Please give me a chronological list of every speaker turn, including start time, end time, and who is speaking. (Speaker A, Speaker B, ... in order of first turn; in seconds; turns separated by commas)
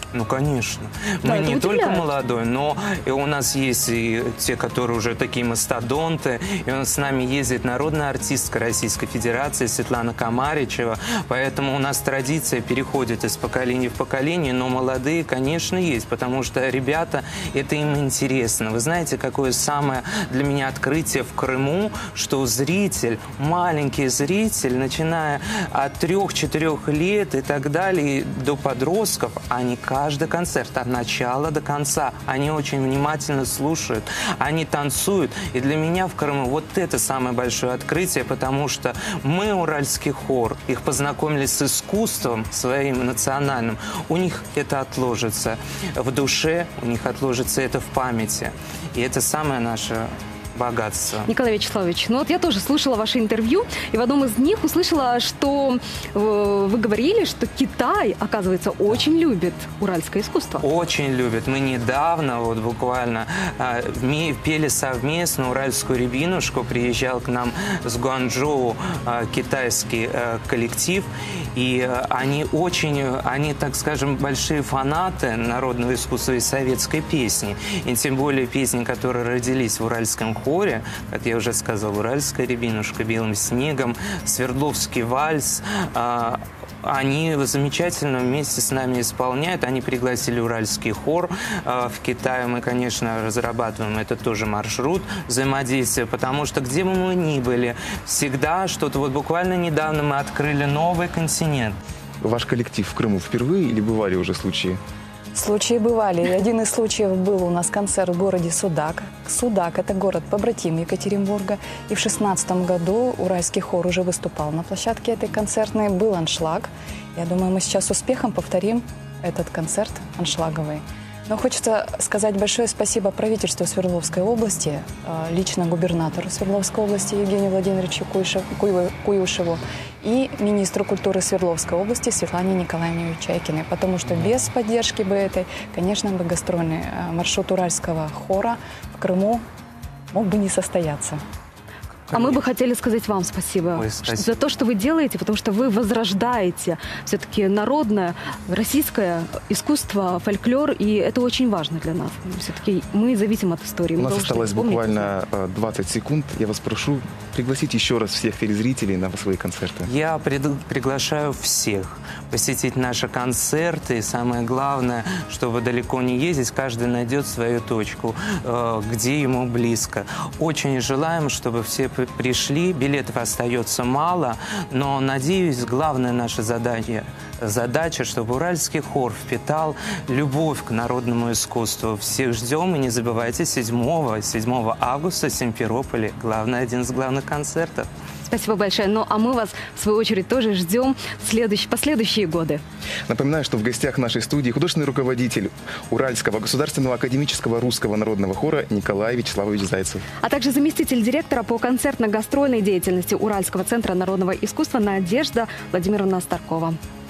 Speaker A: 0.1-51.3, Speaker B: 1.2-2.0, Speaker B: 51.3-60.6, Speaker A: 60.6-101.8, Speaker C: 102.2-104.8, Speaker D: 105.3-139.4, Speaker D: 140.1-141.2, Speaker A: 142.1-142.4, Speaker B: 142.1-155.1, Speaker A: 143.7-144.5, Speaker C: 153.9-159.9, Speaker A: 159.8-187.9, Speaker B: 188.3-192.6, Speaker C: 193.1-200.0, Speaker B: 200.2-206.8